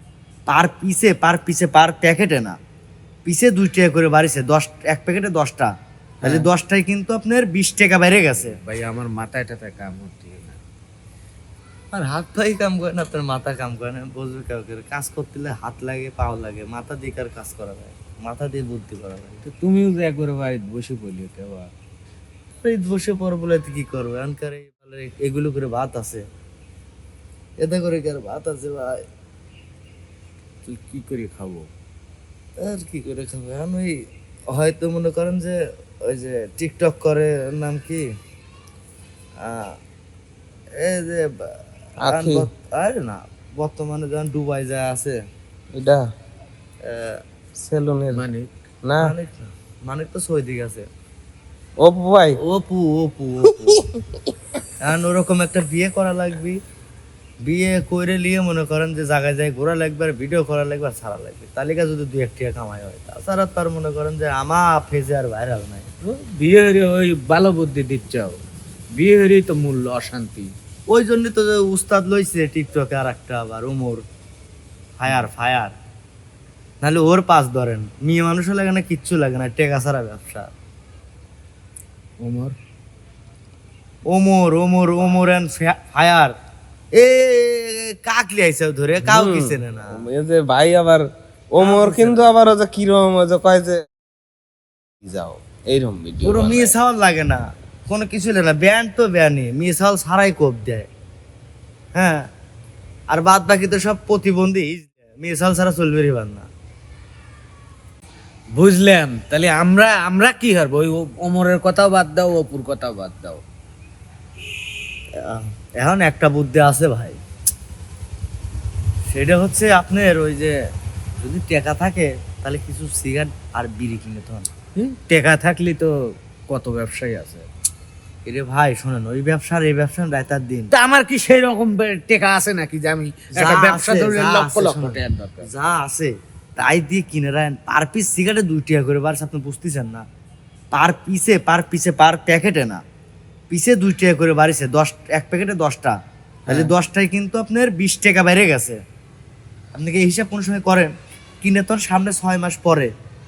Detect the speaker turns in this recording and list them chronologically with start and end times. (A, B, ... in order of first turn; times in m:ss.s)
0:00.5-0:02.6 A
0:03.3-0:05.7 A
0:06.2-0:08.6 A
0:08.4-0:10.6 B
0:11.9-0:19.4 A
0:19.4-0:21.7 B
0:22.6-0:26.2 A
0:27.6-0:29.0 A
0:30.6-0:31.7 B
0:32.6-0:34.0 A
0:34.5-0:38.1 A
0:39.4-0:39.8 A
0:40.8-0:45.2 A
0:42.0-0:42.5 C
0:45.7-0:46.1 C
0:46.8-0:47.2 A
0:47.6-0:48.2 C
0:48.1-0:48.5 B
0:48.8-0:49.1 C
0:49.0-0:50.9 A
0:51.8-0:52.4 C
0:52.3-0:53.8 A
0:54.8-0:56.6 A
0:57.4-1:05.9 A
1:06.0-1:08.4 B
1:08.9-1:10.5 B
1:10.9-1:14.0 A
1:15.0-1:15.7 A
1:16.8-1:20.5 A
1:22.2-1:22.6 B
1:24.1-1:26.3 A
1:27.0-1:30.0 A
1:29.1-1:33.8 C
1:31.6-1:32.3 A
1:35.0-1:36.7 C
1:36.2-1:40.9 A
1:42.0-1:42.2 A
1:43.1-1:46.5 A
1:48.5-1:53.4 B
1:55.2-1:57.2 A
1:59.1-2:00.6 A
2:01.2-2:04.5 A
2:04.8-2:07.5 B
2:08.3-2:10.7 A
2:10.7-2:15.5 B
2:13.4-2:20.0 A
2:20.7-2:22.8 A
2:23.5-2:26.0 A
2:26.5-2:26.7 B
2:26.5-2:28.8 A
2:29.7-2:32.9 A